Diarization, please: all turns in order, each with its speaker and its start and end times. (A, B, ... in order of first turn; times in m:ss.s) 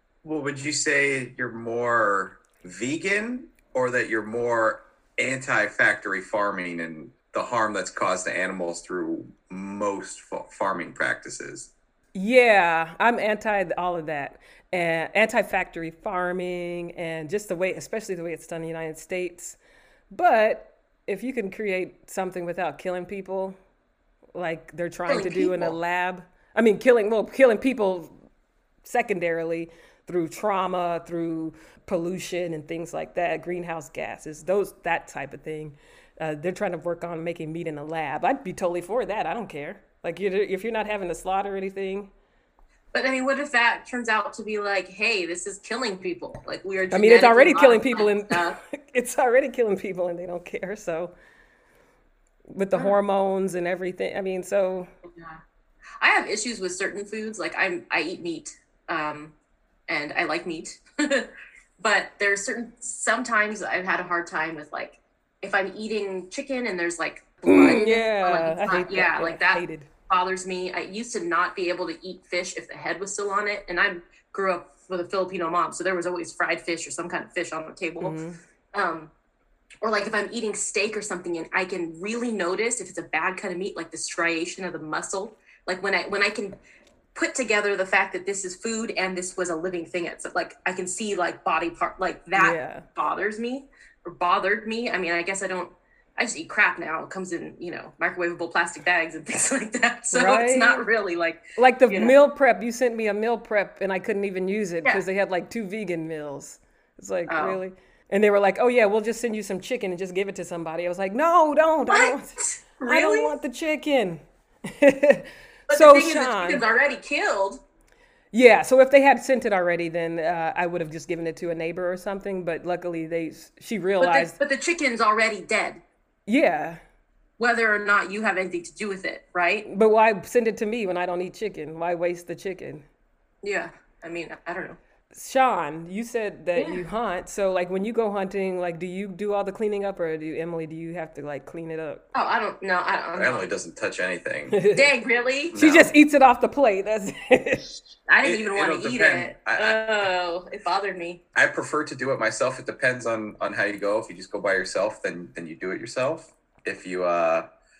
0:00.2-0:11.7 A
0:12.1-0:19.6 B
0:20.1-0:23.6 B
0:24.3-0:28.1 B
0:25.1-0:25.8 C
0:28.8-0:42.1 B
0:42.9-0:48.6 C
0:46.9-0:51.1 B
0:52.5-0:54.9 B
0:56.0-0:59.3 C
0:59.9-1:18.2 C
1:07.5-1:09.9 B
1:18.0-1:18.4 B
1:18.7-1:19.1 C
1:19.8-1:26.6 C
1:27.1-1:42.1 C
1:32.4-1:32.8 B
1:40.1-1:40.8 B
1:41.6-1:52.3 B
1:47.3-1:47.6 C
1:51.9-1:53.3 C
1:52.8-1:56.6 B
1:55.7-1:57.6 C
1:58.3-2:04.3 B
2:04.0-2:05.8 C
2:06.3-2:06.8 B
2:07.4-2:09.7 C
2:09.7-2:12.8 B
2:13.4-2:14.8 C
2:15.1-2:22.0 B
2:16.6-2:16.8 C
2:22.1-2:23.4 C
2:23.2-2:24.6 A
2:24.5-2:24.9 B
2:24.7-2:25.6 C
2:25.5-2:25.9 A
2:25.6-2:27.8 B
2:28.1-2:31.2 C
2:28.2-2:29.8 A
2:31.3-2:37.4 A